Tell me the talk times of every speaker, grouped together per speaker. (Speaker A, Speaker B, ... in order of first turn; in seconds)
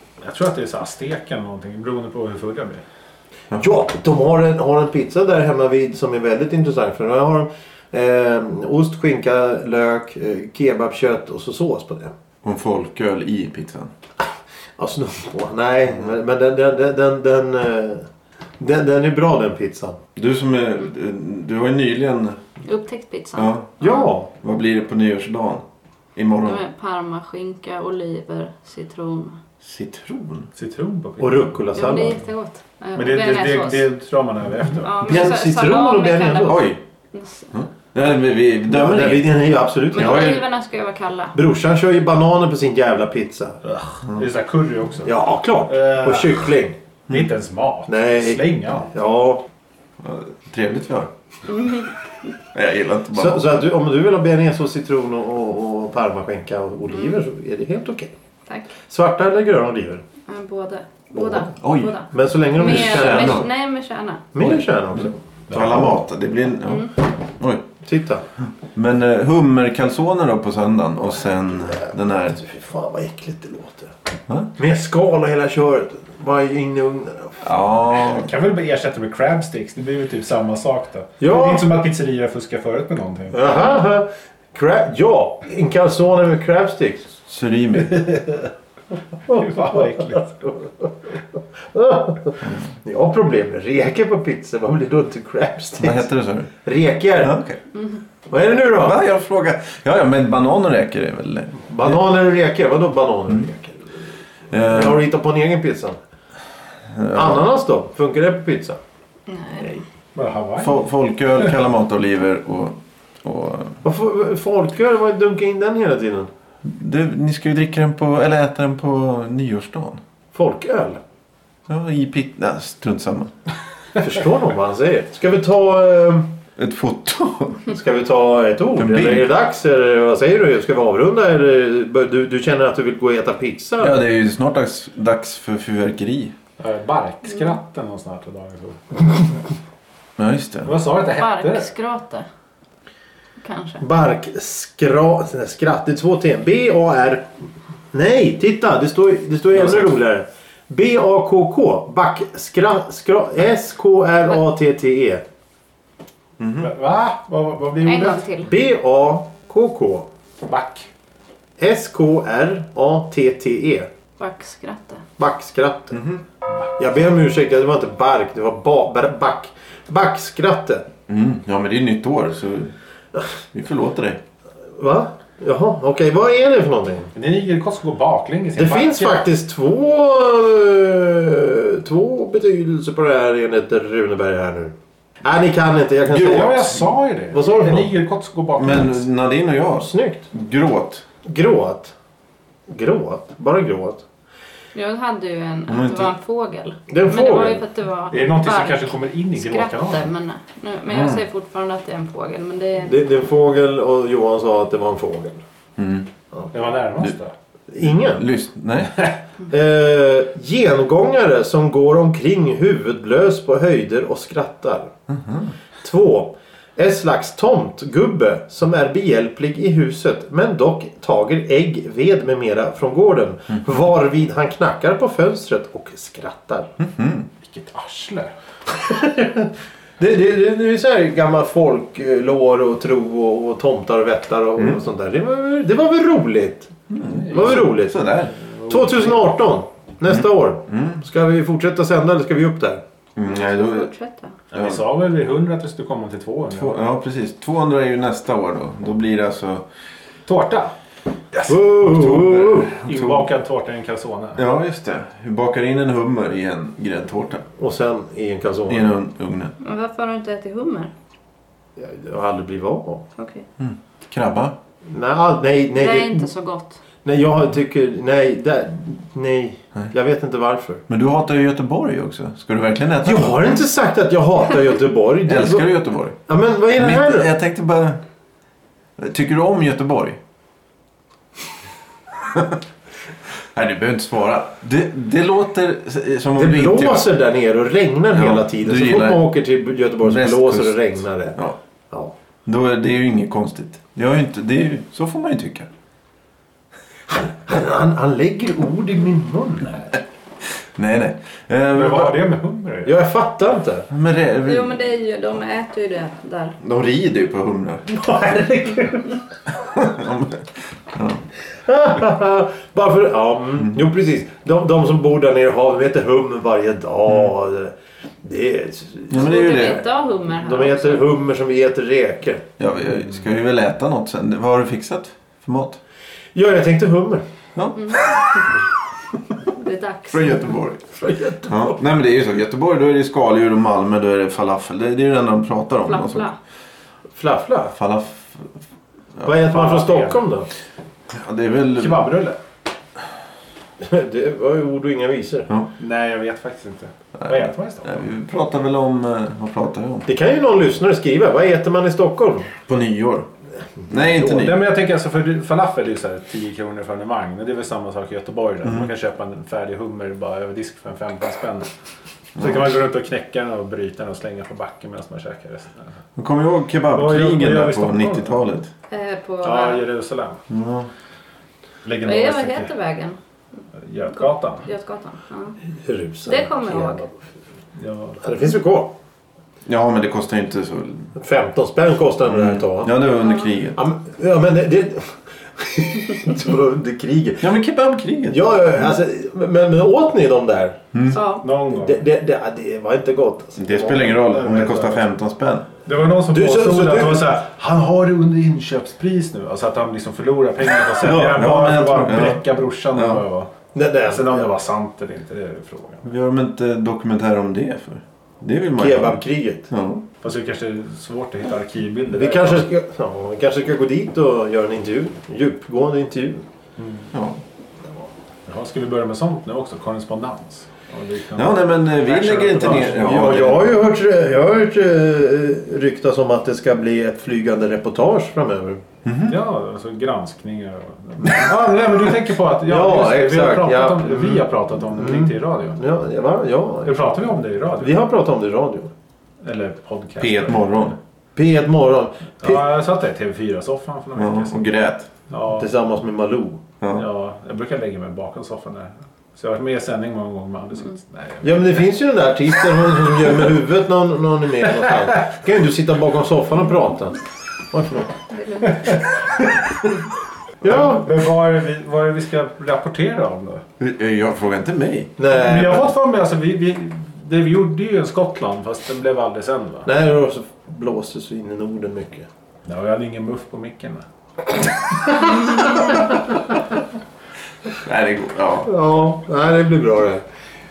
Speaker A: 0.2-2.8, 30.6-31.7, 33.0-35.0, 43.6-45.1, 45.7-46.5, 47.1-48.9, 78.0-83.7, 89.3-90.3, 110.2-110.8, 136.6-139.3, 140.7-141.7, 156.6-158.2, 160.5-160.9, 177.2-179.2, 186.1-189.0, 198.1-200.1, 206.5-207.3, 227.4-228.3, 238.4-239.2, 244.5-246.8, 250.3-250.8, 252.8-254.4, 301.8-303.0, 339.4-340.2, 341.8-342.4, 345.8-348.0, 354.0-361.7, 362.4-365.9, 366.9-368.3, 369.4-370.4, 371.8-372.7, 373.8-374.7, 377.8-378.3, 391.3-392.0, 394.3-395.0, 395.9-403.5, 404.1-406.0, 410.2-412.6, 416.8-417.1, 418.5-423.2, 429.3-435.8, 436.9-438.0, 439.4-440.9, 442.4-444.7, 445.3-445.7, 446.9-451.8, 458.7-459.0, 460.6-463.6, 465.3-469.9, 472.6-474.1
Speaker B: 3.5-12.1, 14.8-18.1, 18.6-20.0, 23.8-24.3, 31.2-32.2, 35.0-36.6, 38.7-40.4, 41.3-43.6, 45.0-46.8, 47.9-49.4, 53.1-58.1, 58.9-60.0, 61.1-61.5, 62.1-63.5, 64.3-65.9, 67.8-68.2, 71.5-73.9, 74.6-77.5, 81.2-81.7, 83.3-87.1, 89.3-96.1, 96.6-97.4, 98.3-99.0, 101.7-106.0, 107.1-108.8, 113.8-116.3, 120.3-121.0, 124.0-126.3, 127.7-134.0, 143.8-147.3, 147.9-155.2, 158.4-160.1, 161.6-163.9, 165.2-166.0, 166.8-170.9, 174.8-177.1, 178.6-187.9, 189.8-190.2, 191.2-191.9, 192.7-194.1, 196.9-197.6, 202.8-205.4, 207.7-208.3, 209.5-214.9, 215.8-226.7, 228.8-236.7, 237.3-238.0, 238.7-242.8, 251.4-252.7, 257.6-258.9, 261.8-263.0, 264.9-266.2, 267.1-270.8, 273.0-275.8, 276.3-277.3, 286.3-291.4, 297.1-300.0, 302.9-303.9, 307.9-309.2, 311.6-319.7, 320.4-322.4, 326.4-327.2, 331.0-331.8, 337.2-337.8, 339.2-340.5, 343.8-345.5, 350.1-352.5, 375.9-377.1, 378.2-378.9, 381.2-382.9, 383.8-387.5, 388.3-390.8, 391.7-394.3, 396.3-397.3, 401.0-401.4, 403.7-404.5, 408.8-409.7, 412.1-416.4, 422.9-428.8, 432.7-437.2, 437.8-438.9, 441.4-442.7, 445.5-446.6, 451.4-457.2, 457.7-458.1, 460.6-461.1, 465.2-465.9, 469.9-472.3, 478.6-480.2
Speaker C: 12.4-13.9, 20.2-22.4, 23.4-23.7, 24.4-25.6, 26.1-26.6, 29.6-30.5, 36.5-36.8, 37.5-39.4, 39.9-40.4, 50.0-51.1, 52.5-53.5, 61.6-62.0, 62.6-63.5, 64.4-67.7, 68.7-72.4, 77.4-78.3, 87.2-88.2, 95.8-96.5, 97.2-97.6, 98.8-102.0, 104.5-105.0, 106.9-107.5, 110.6-113.8, 116.6-120.0, 121.7-123.3, 126.6-127.7, 128.8-129.3, 133.8-136.3, 140.2-140.7, 156.4-156.7, 165.9-166.2, 171.1-172.7, 173.5-174.2, 186.1-186.8, 188.6-191.1, 195.7-196.1, 200.9-201.2, 205.8-206.1, 207.9-209.1, 215.1-215.5, 226.8-227.3, 236.9-238.3, 240.1-241.0, 243.2-243.9, 244.5-244.8, 246.5-249.7, 251.5-253.3, 254.4-257.4, 258.7-259.6, 263.6-264.6, 270.9-273.5, 275.3-276.2, 276.8-278.0, 279.0-280.2, 282.3-282.6, 283.5-287.1, 288.1-289.3, 290.0-291.6, 292.5-295.7, 300.8-302.2, 303.9-304.8, 306.6-307.9, 309.5-311.2, 319.1-319.9, 322.6-325.8, 327.6-328.0, 330.1-330.9, 331.4-336.3, 337.7-338.5, 341.1-342.1, 347.2-350.1, 352.7-353.3, 353.9-354.7, 358.6-358.9, 362.4-362.7, 366.2-368.7, 370.5-370.9, 379.7-381.1, 382.3-383.8, 387.4-388.9, 390.9-391.2, 393.6-395.7, 401.0-403.2, 406.0-410.1, 417.1-417.4, 421.4-423.8, 429.1-429.4, 440.2-441.0, 444.2-445.1, 446.8-447.1, 463.8-465.2, 477.8-478.7
Speaker D: 22.7-24.1, 26.4-29.4, 31.7-33.9, 34.8-37.5, 39.9-41.4, 51.5-51.9, 56.9-57.2, 60.3-64.3, 66.7-66.9, 109.3-109.8, 141.1-142.3, 143.4-143.8, 157.8-158.5, 164.2-165.0, 194.7-203.0, 243.2-244.4, 259.6-260.9, 263.2-263.4, 265.8-266.8, 304.4-306.6, 319.2-321.1, 327.8-328.5, 329.5-330.4, 335.9-336.4, 368.9-369.9, 372.0-373.2, 374.1-375.6, 376.3-377.1, 383.2-383.5, 391.1-391.4, 458.3-459.1